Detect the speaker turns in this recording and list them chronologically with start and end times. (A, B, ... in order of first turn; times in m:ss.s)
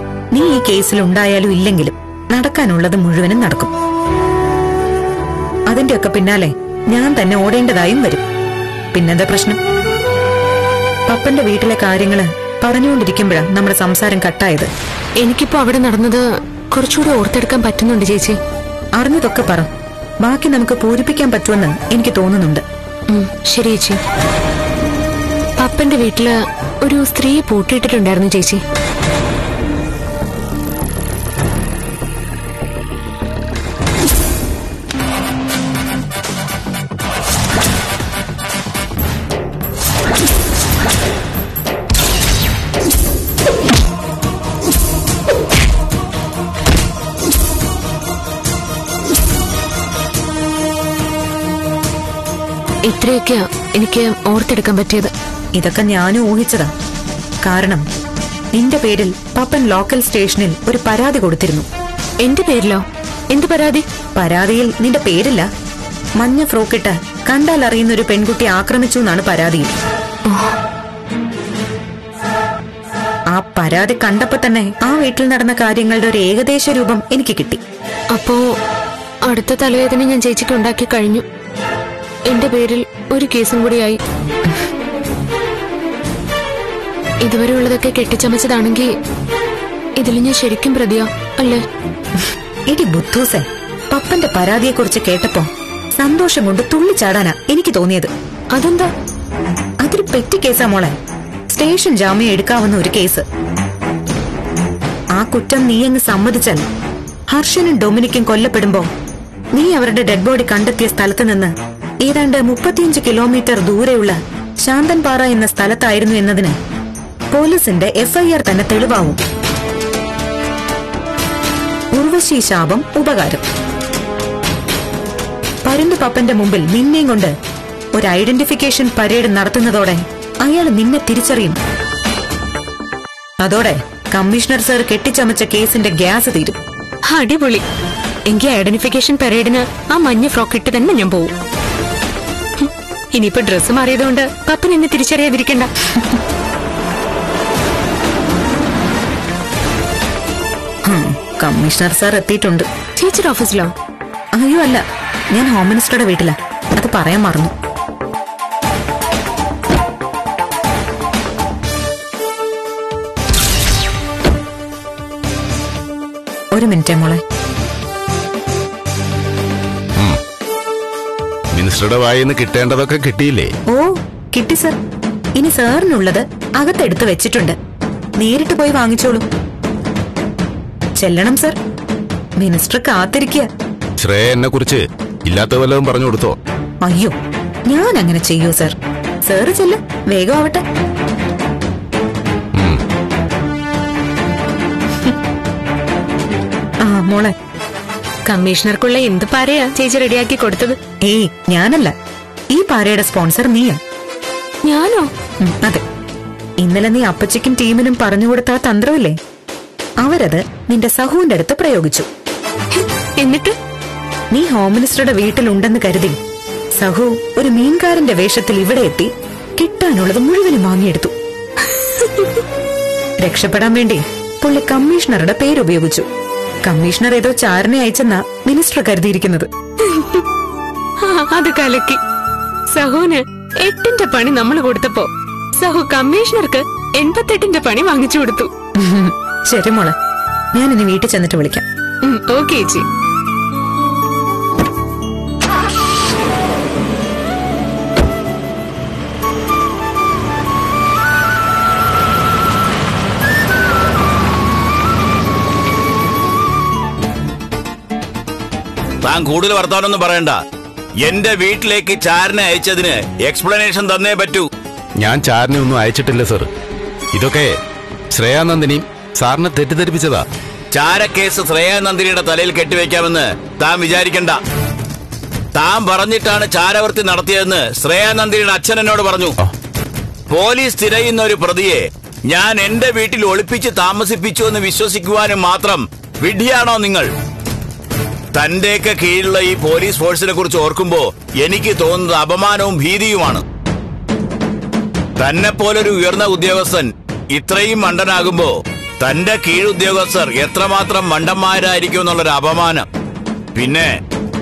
0:00.3-0:03.7 A
0:05.7-0:08.2 A
0:08.9-0:09.6 A
0:11.1-0:14.7 A
0:15.2-0:16.2 B
0:16.7-0:18.4 B
0:19.0-0:19.7 A
0:20.2-0:22.6 A
0:23.1-0:24.0 B
0:25.6-0:26.3 B
0:26.8-0:28.6 B
0:52.9-0:55.1 B
0:55.6-0:56.7 A
0:57.4-0:57.8 A
0:58.6-1:01.7 A
1:02.2-1:03.8 B
1:04.2-1:05.5 A
1:06.2-1:09.7 A
1:10.3-1:10.5 B
1:13.3-1:17.6 A
1:18.1-1:18.4 B
1:19.3-1:21.2 B
1:22.3-1:24.0 B
1:27.2-1:28.9 B
1:30.0-1:31.6 B
1:32.7-1:38.1 A
1:38.5-1:38.9 B
1:39.8-1:41.0 A
1:41.5-1:43.2 A
1:45.2-1:46.6 A
1:47.3-1:48.9 A
1:49.6-1:51.5 A
1:52.0-1:56.6 A
1:57.3-1:59.2 A
2:02.0-2:03.4 A
2:05.7-2:07.3 A
2:08.0-2:11.6 A
2:13.4-2:16.6 A
2:17.1-2:17.6 B
2:18.3-2:21.3 B
2:22.6-2:25.7 B
2:30.9-2:32.7 A
2:33.0-2:33.7 B
2:34.4-2:34.8 A
2:35.3-2:37.5 A
2:46.5-2:47.2 A
2:51.6-2:53.5 C
2:53.7-2:54.8 A
2:55.4-2:57.6 A
2:58.2-2:59.2 A
3:01.0-3:01.6 A
3:02.4-3:03.5 A
3:04.0-3:06.4 C
3:06.8-3:07.2 A
3:07.7-3:08.8 A
3:09.3-3:10.6 A
3:16.8-3:17.3 A
3:18.3-3:20.8 B
3:21.1-3:21.9 A
3:22.5-3:23.8 A
3:24.6-3:25.1 B
3:25.4-3:25.8 A
3:26.6-3:29.2 A
3:30.0-3:32.1 A
3:32.8-3:33.6 B
3:34.3-3:36.2 A
3:36.8-3:41.1 A
3:41.8-3:42.4 B
3:43.2-3:46.1 A
3:46.7-3:49.5 A
3:49.9-3:50.2 B
3:51.0-3:52.0 B
3:52.7-3:58.5 B
3:58.8-4:00.0 A
4:00.6-4:01.6 A
4:02.1-4:02.8 B
4:19.0-4:20.4 D
4:21.0-4:24.5 D
4:25.0-4:26.5 C
4:27.2-4:27.5 C
4:28.1-4:30.2 C
4:30.7-4:34.4 D
4:35.6-4:39.4 D
4:40.3-4:47.1 D
4:48.4-4:53.4 D
4:55.2-5:02.9 D
5:03.6-5:03.9 D